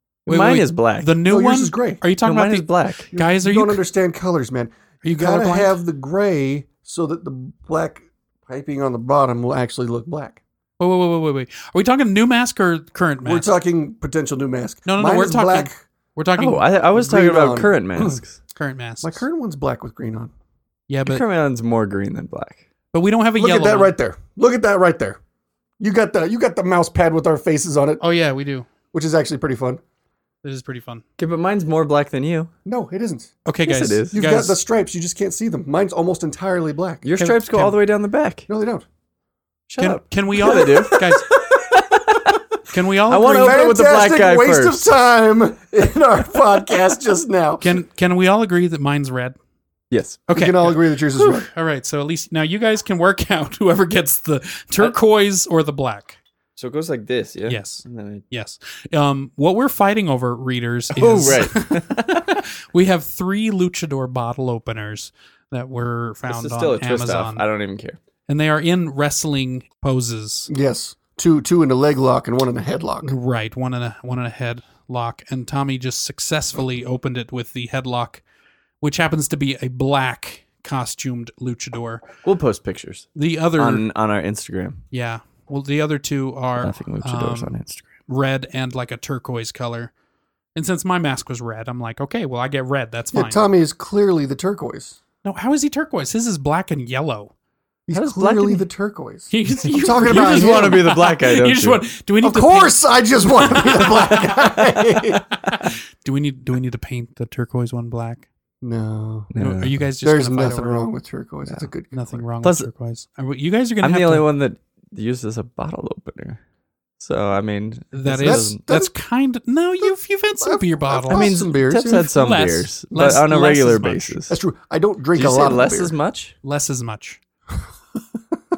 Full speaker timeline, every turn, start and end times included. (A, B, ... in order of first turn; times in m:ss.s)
0:00.3-0:01.1 A
0:00.3-0:03.8 B
0:01.2-0:02.0 C
0:02.2-0:03.1 A
0:03.1-0:10.4 C
0:05.0-0:05.8 B
0:10.8-0:13.5 B
0:13.2-0:15.8 C
0:14.9-0:16.6 B
0:16.4-0:18.4 A
0:16.9-0:18.2 C
0:18.6-0:19.2 B
0:19.0-0:20.3 C
0:20.9-0:21.2 B
0:21.0-0:22.6 A
0:22.9-0:24.0 B
0:23.4-0:25.2 C
0:25.8-0:28.0 C
0:28.0-0:28.7 B
0:28.9-0:29.8 C
0:30.4-0:31.0 B
0:31.2-0:32.5 A
0:32.7-0:33.3 C
0:33.5-0:34.6 B
0:33.6-0:34.2 A
0:34.1-0:37.1 C
0:37.0-0:38.5 A
0:37.2-0:37.8 B
0:38.5-0:38.9 C
0:39.7-0:42.4 A
0:39.8-0:41.3 B
0:40.4-0:40.8 C
0:42.7-0:43.7 B
0:43.1-0:44.8 A
0:43.3-0:47.8 C
0:47.6-0:49.4 B
0:49.9-0:50.2 A
0:50.3-0:56.2 B
0:50.3-0:51.5 C
0:56.6-0:58.2 A
0:57.5-1:07.4 B
1:00.9-1:02.4 A
1:06.3-1:08.0 A
1:08.3-1:10.5 B
1:10.5-1:13.1 C
1:13.0-1:18.2 B
1:18.8-1:22.0 B
1:22.2-1:24.8 A
1:23.2-1:23.8 B
1:24.9-1:27.6 B
1:26.6-1:27.9 A
1:28.1-1:29.9 B
1:30.6-1:33.4 B
1:33.1-1:35.0 C
1:35.2-1:37.3 B
1:37.9-1:40.8 C
1:37.9-1:38.6 A
1:39.3-1:48.3 B
1:40.0-1:41.8 A
1:42.2-1:45.2 C
1:48.6-1:49.3 C
1:49.3-1:49.8 A
1:49.4-1:50.9 B
1:50.0-1:52.2 C
1:51.9-1:54.3 B
1:52.4-1:52.7 A
1:53.8-1:56.4 A
1:57.0-1:58.6 A
1:57.9-2:01.4 B
1:58.2-1:58.9 C
2:00.4-2:02.2 C
2:01.1-2:04.4 A
2:02.0-2:04.2 B
2:04.3-2:06.0 C
2:05.2-2:06.4 A
2:06.4-2:07.2 B